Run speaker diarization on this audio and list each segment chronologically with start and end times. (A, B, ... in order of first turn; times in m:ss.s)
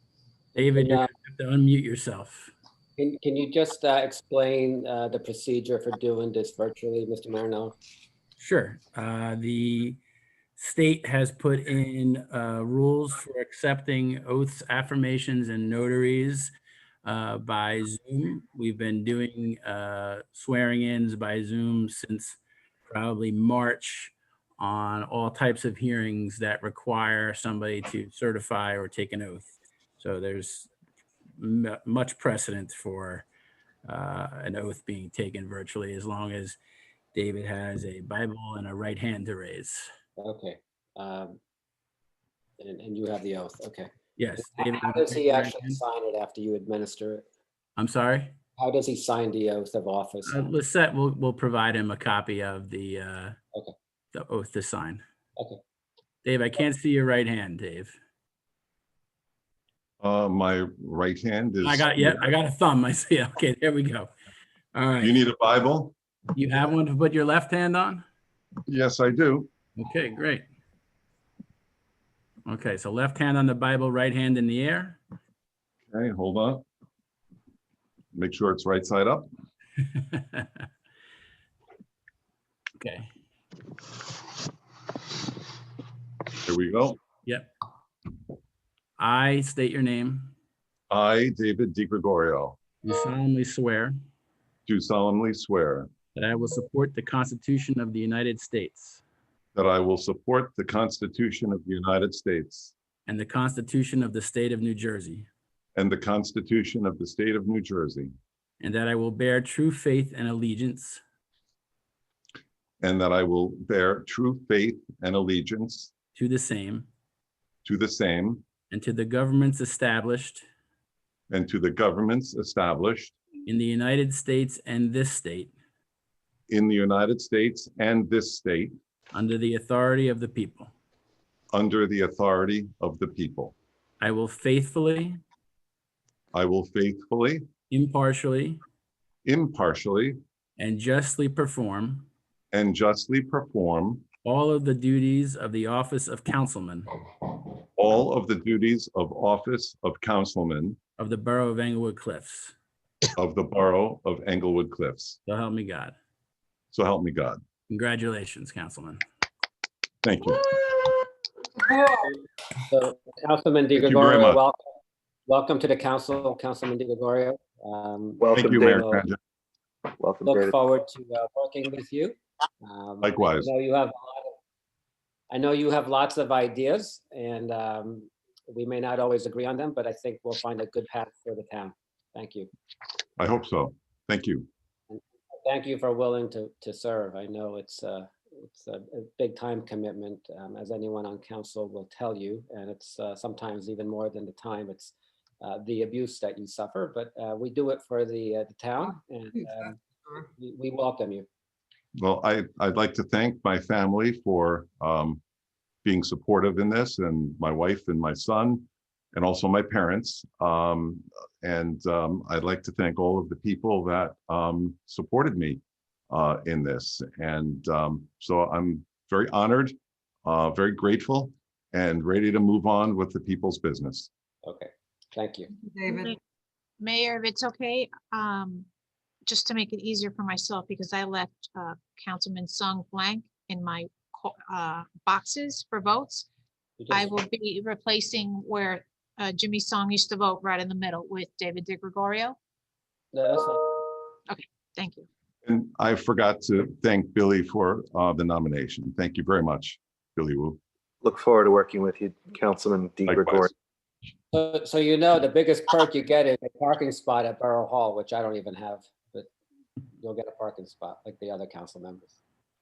0:00.5-0:02.5 A
0:00.8-0:01.1 B
0:03.0-0:07.7 B
0:08.4-0:10.0 A
0:10.6-0:16.5 A
0:17.0-0:30.7 A
0:31.4-0:33.2 A
0:33.8-0:36.6 A
0:37.1-0:39.8 A
0:40.2-0:41.4 B
0:42.6-0:47.2 B
0:44.2-0:45.8 A
0:47.8-0:48.3 A
0:48.6-0:50.5 B
0:50.2-0:53.4 A
0:54.1-0:55.0 A
0:56.2-0:58.0 A
1:00.0-1:02.3 C
1:01.6-1:04.1 A
1:04.7-1:05.2 A
1:05.0-1:05.9 C
1:06.3-1:08.0 A
1:08.7-1:09.5 C
1:09.8-1:10.4 A
1:12.4-1:15.0 A
1:15.9-1:16.6 C
1:18.1-1:19.3 C
1:19.8-1:20.6 A
1:22.8-1:23.1 A
1:26.4-1:27.0 C
1:27.2-1:27.5 A
1:29.0-1:30.3 A
1:30.9-1:32.6 C
1:32.8-1:33.9 A
1:34.7-1:35.9 C
1:36.1-1:39.0 A
1:39.5-1:42.7 C
1:43.0-1:45.3 A
1:45.8-1:48.1 C
1:48.6-1:51.0 A
1:52.8-1:55.9 C
1:56.1-1:56.9 A
1:57.6-1:58.4 C
1:58.7-2:00.4 A
2:01.3-2:03.2 C
2:03.4-2:05.5 A
2:06.5-2:08.7 C
2:09.1-2:10.7 A
2:11.5-2:13.5 C
2:14.0-2:15.2 A
2:16.3-2:17.4 C
2:17.7-2:18.6 A
2:19.2-2:20.2 C
2:20.6-2:22.1 A
2:22.5-2:24.0 C
2:24.2-2:26.9 A
2:27.8-2:30.8 C
2:31.0-2:32.5 A
2:33.2-2:35.2 C
2:35.2-2:36.0 A
2:36.7-2:37.4 C
2:37.7-2:39.0 A
2:40.0-2:40.5 C
2:42.7-2:44.6 B
2:43.8-2:44.4 C
2:45.3-2:49.0 B
2:48.2-2:49.0 D
2:48.4-2:49.2 C
2:50.0-2:50.6 D
2:50.2-2:54.3 B
2:53.0-2:53.5 C
2:55.3-3:02.5 B
3:03.2-3:04.5 C
3:04.9-3:19.8 B
3:20.4-3:21.2 B
3:21.9-3:25.2 C
3:25.8-3:44.1 C
3:44.4-3:45.5 B
3:45.8-3:46.2 E
3:46.8-3:48.7 E
3:49.2-3:56.2 E
3:56.8-3:57.2 B
3:56.9-4:02.4 E
4:03.1-4:03.9 B
4:04.3-4:05.0 E
4:05.4-4:10.6 C
4:11.0-4:13.5 D
4:13.1-4:13.5 C
4:14.3-4:19.3 B
4:20.0-4:22.1 B